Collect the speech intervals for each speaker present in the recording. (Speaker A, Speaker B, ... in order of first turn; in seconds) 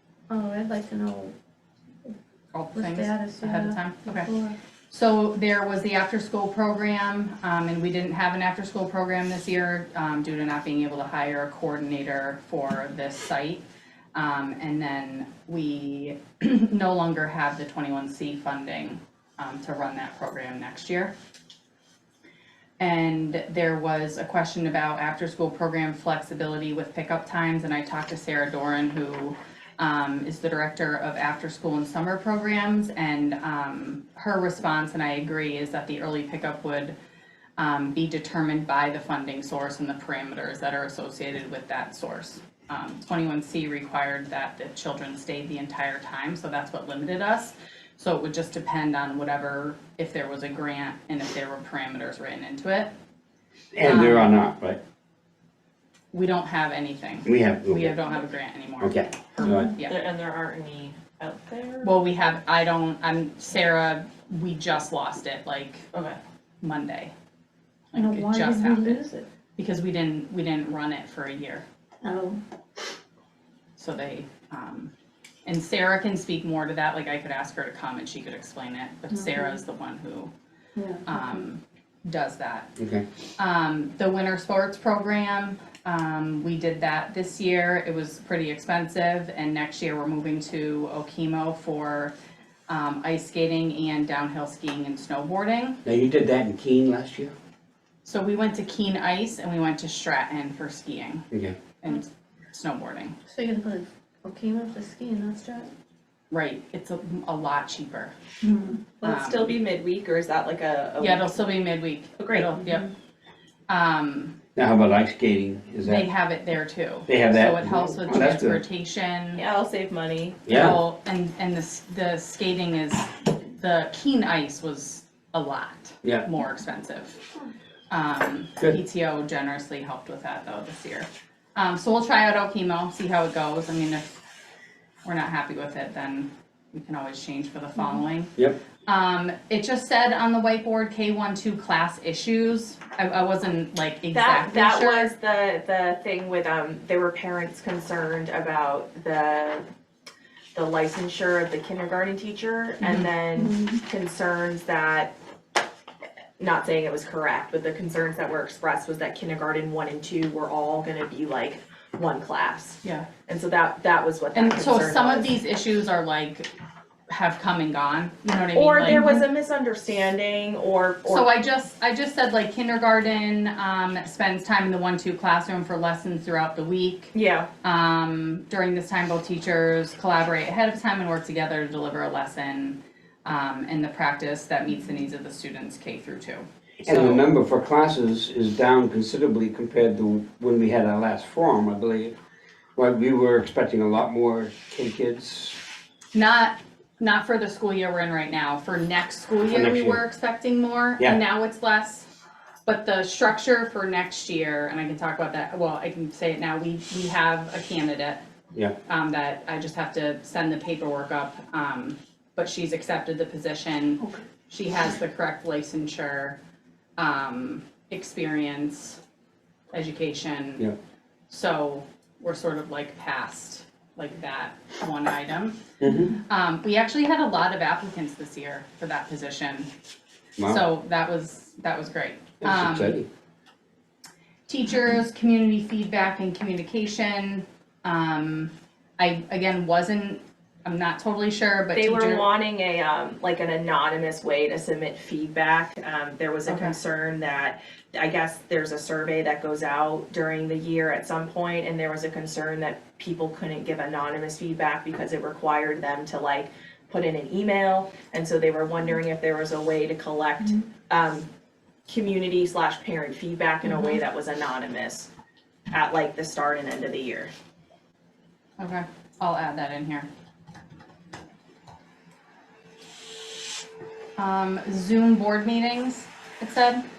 Speaker A: 0.3-1.3, 2.7-4.5, 67.9-69.2, 72.0-72.4, 80.8-81.2, 103.3-105.7, 108.4-108.8, 153.4-153.8, 168.9-169.2
Speaker B: 2.5-4.3, 4.9-13.6, 14.1-21.1, 22.8-36.9, 37.6-52.9, 53.8-54.4, 56.1-60.0, 61.8-65.8, 66.6-67.1, 67.9-69.0, 69.6-71.6, 73.8-74.9, 75.5-80.3, 81.0-82.7, 83.4-92.1, 92.7-95.8, 98.0-101.2, 101.8-103.2, 106.3-108.1, 109.0-109.5, 111.0-112.9, 113.7-114.3, 115.8-119.4, 120.5-127.2, 127.9-134.2, 135.0-145.1, 152.8-153.1, 162.8-163.1, 164.3-166.5, 167.1-169.0, 171.1-187.3, 196.1-202.1, 202.6-208.2, 208.8-216.4, 217.0-219.0, 219.7-220.7, 221.3-229.7, 230.4-233.0, 234.5-242.3, 246.5-246.8, 268.6-270.1, 274.2-276.8
Speaker C: 53.7-54.8, 57.2-57.9, 58.8-59.7, 82.8-83.0, 95.8-97.3, 101.3-101.6, 114.5-116.1, 117.1-118.6, 120.5-120.8, 186.8-192.1, 192.8-195.6, 199.4-200.0, 225.8-226.1, 230.4-230.6, 232.4-233.1
Speaker D: 59.8-61.9, 65.9-66.2, 109.0-111.3, 112.2-112.5, 119.3-120.5, 144.1-149.7, 150.5-155.1, 156.4-165.3, 168.5-171.3, 177.1-177.5, 241.7-261.3, 261.9-265.1, 265.7-267.3